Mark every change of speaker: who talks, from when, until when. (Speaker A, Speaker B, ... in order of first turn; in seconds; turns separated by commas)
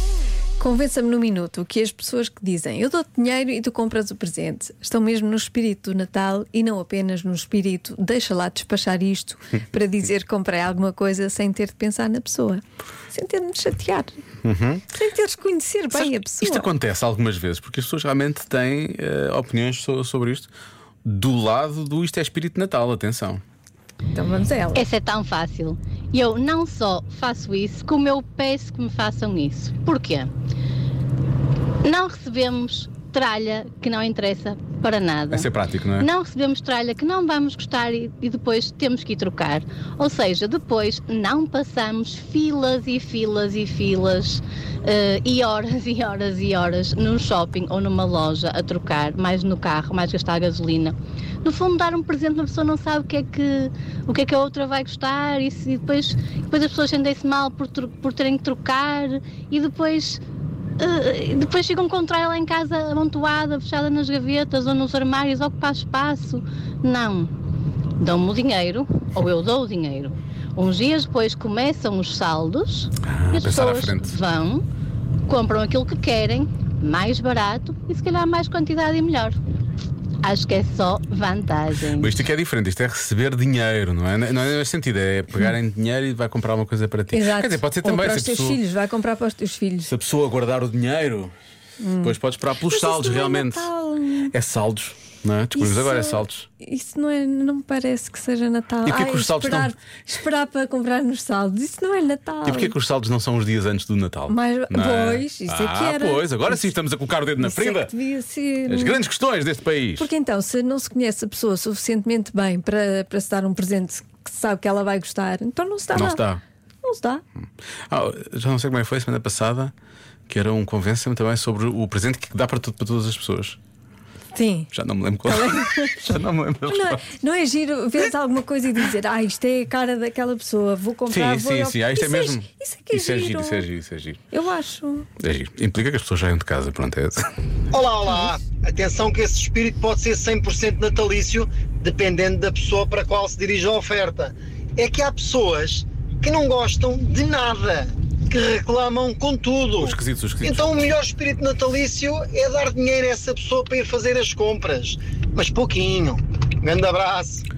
Speaker A: 0.6-14.2, Speaker B: 14.4-14.8, Speaker A: 14.9-16.7, Speaker B: 15.9-20.5, Speaker B: 21.0-23.4, Speaker A: 24.1-24.9, Speaker C: 24.8-30.3, Speaker C: 31.8-60.2, Speaker B: 35.3-36.1, Speaker C: 60.8-67.3, Speaker C: 68.0-74.7, Speaker B: 73.0-74.2, Speaker C: 75.3-79.4, Speaker C: 80.2-82.1, Speaker B: 82.0-88.6, Speaker A: 87.1-89.9, Speaker B: 89.9-91.3, Speaker A: 91.8-94.3, Speaker B: 92.0-93.7, Speaker B: 94.3-96.5, Speaker A: 95.5-102.7, Speaker B: 98.8-99.7, Speaker B: 102.5-107.9, Speaker A: 104.3-106.8, Speaker A: 107.4-109.0, Speaker B: 108.7-110.1, Speaker A: 110.0-116.2, Speaker B: 115.9-116.4, Speaker A: 116.8-117.2, Speaker B: 117.9-119.7, Speaker B: 120.3-123.6, Speaker A: 124.3-124.7, Speaker B: 124.7-127.1, Speaker A: 125.2-133.7, Speaker B: 131.1-134.2, Speaker A: 134.3-135.1, Speaker B: 135.2-137.3, Speaker D: 137.7-149.9, Speaker A: 138.1-138.3, Speaker B: 149.8-150.8, Speaker D: 150.5-157.4